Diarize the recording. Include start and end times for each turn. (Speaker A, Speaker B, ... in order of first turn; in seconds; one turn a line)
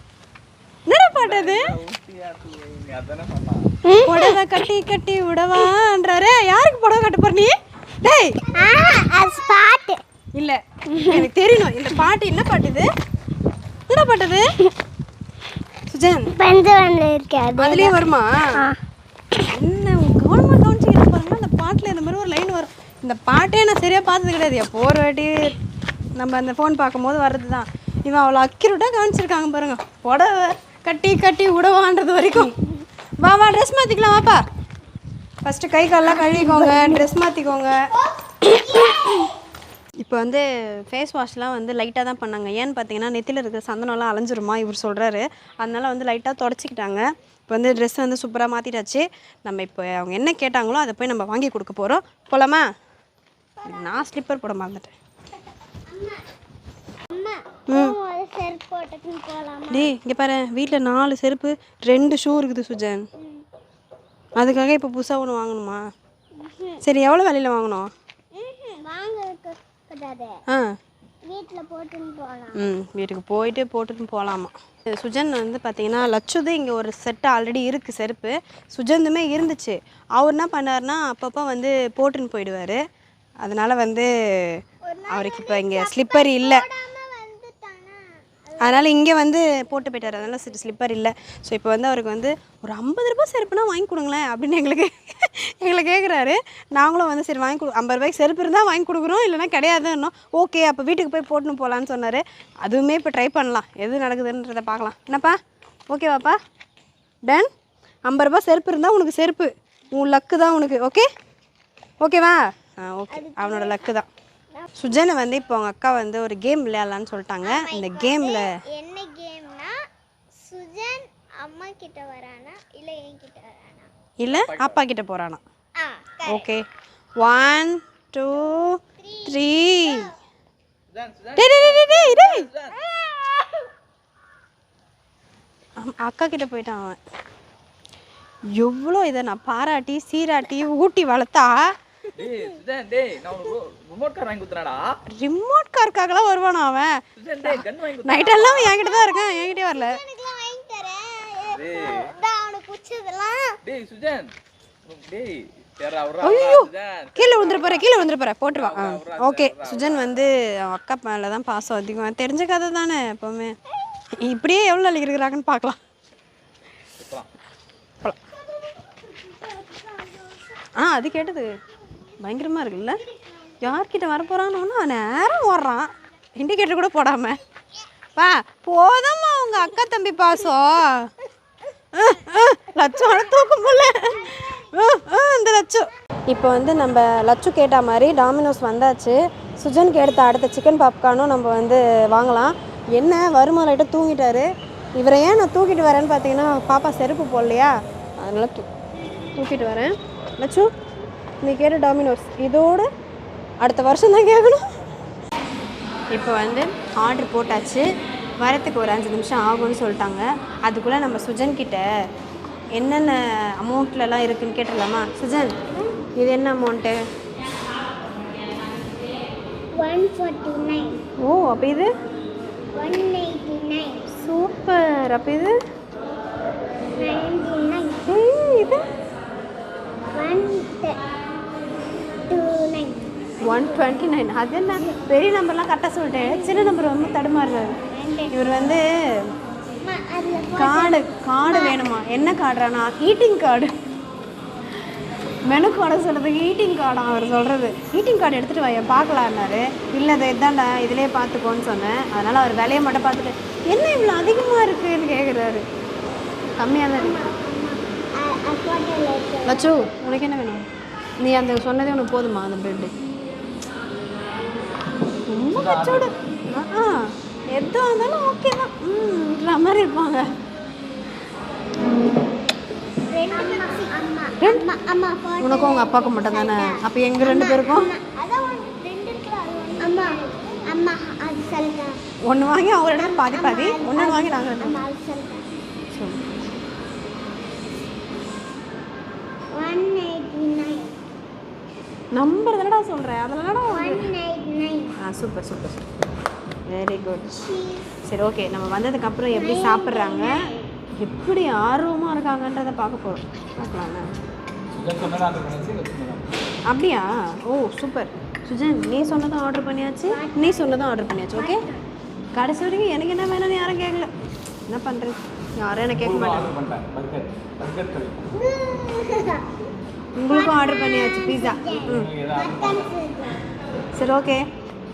Speaker A: 0.9-1.8
Speaker B: 1.2-3.7
Speaker C: 3.9-4.4
Speaker A: 4.0-8.4
Speaker C: 8.5-10.0
Speaker A: 10.3-12.9
Speaker C: 10.9-11.2
Speaker A: 13.9-14.5
Speaker A: 15.9-16.3
Speaker C: 16.3-17.9
Speaker A: 17.6-18.5
Speaker A: 19.4-25.5
Speaker A: 26.2-32.6
Speaker A: 33.2-34.4
Speaker A: 35.4-37.9
Speaker C: 38.2-39.3
Speaker A: 40.0-52.6
Speaker C: 53.6-54.0
Speaker A: 53.6-54.9
Speaker C: 55.9-56.2
Speaker C: 57.1-59.9
Speaker A: 59.7-63.0
Speaker A: 64.4-65.8
Speaker C: 66.4-66.8
Speaker A: 66.8-67.9
Speaker C: 68.3-70.3
Speaker C: 71.2-72.6
Speaker A: 72.5-82.8
Speaker A: 83.4-86.6
Speaker C: 84.8-88.9
Speaker A: 88.6-105.4
Speaker A: 105.9-106.4
Speaker A: 108.1-111.1
Speaker A: 112.0-114.1
Speaker C: 113.1-113.8
Speaker A: 114.8-118.5
Speaker C: 117.4-119.7
Speaker C: 120.4-123.9
Speaker A: 124.2-125.4
Speaker B: 124.3-124.8
Speaker C: 125.8-126.4
Speaker A: 126.2-126.6
Speaker A: 127.2-130.1
Speaker C: 129.0-130.1
Speaker B: 130.9-132.8
Speaker A: 131.4-132.5
Speaker A: 135.8-137.0
Speaker A: 138.6-141.7
Speaker B: 142.2-145.0
Speaker A: 145.1-150.0
Speaker B: 147.2-148.8
Speaker C: 148.7-153.6
Speaker B: 151.5-152.1
Speaker B: 153.6-154.3
Speaker B: 154.8-157.9
Speaker A: 156.2-163.6
Speaker B: 158.5-160.1
Speaker A: 164.2-165.8
Speaker B: 167.0-167.3
Speaker C: 169.2-170.4
Speaker A: 170.8-171.5
Speaker A: 172.2-173.0
Speaker A: 173.6-177.4
Speaker A: 178.2-181.1
Speaker A: 181.9-198.6
Speaker A: 199.4-200.7
Speaker A: 201.4-202.9
Speaker A: 203.6-204.6
Speaker A: 206.1-207.9
Speaker A: 208.4-211.9
Speaker A: 212.8-215.6
Speaker A: 216.2-217.0
Speaker C: 219.7-221.0
Speaker A: 221.2-221.9
Speaker C: 222.7-224.1
Speaker A: 224.1-225.6
Speaker C: 226.9-228.0
Speaker A: 228.1-228.8
Speaker C: 230.1-231.0
Speaker C: 232.3-233.1
Speaker A: 233.4-237.8
Speaker C: 237.9-238.3
Speaker A: 238.3-238.8
Speaker C: 239.8-241.8
Speaker A: 240.6-243.7
Speaker A: 245.5-255.6
Speaker A: 256.6-257.2
Speaker C: 256.9-259.9
Speaker A: 259.4-260.6
Speaker A: 261.2-262.9
Speaker A: 265.3-270.2
Speaker B: 265.5-266.1
Speaker C: 273.1-282.0
Speaker A: 275.4-277.9
Speaker A: 282.3-284.8
Speaker C: 283.0-285.4
Speaker A: 285.9-286.2
Speaker C: 289.5-290.9
Speaker A: 292.1-294.1
Speaker C: 293.7-294.9
Speaker A: 295.0-295.9
Speaker A: 296.7-297.5
Speaker C: 297.4-297.9
Speaker A: 298.0-300.3
Speaker C: 299.3-300.7
Speaker A: 301.0-304.1
Speaker B: 304.7-306.2
Speaker A: 306.7-311.6
Speaker C: 310.1-311.8
Speaker A: 312.3-314.1
Speaker A: 314.7-316.5
Speaker B: 315.9-318.2
Speaker C: 318.3-319.5
Speaker A: 320.2-322.1
Speaker C: 320.3-323.4
Speaker B: 321.9-322.9
Speaker A: 323.9-324.4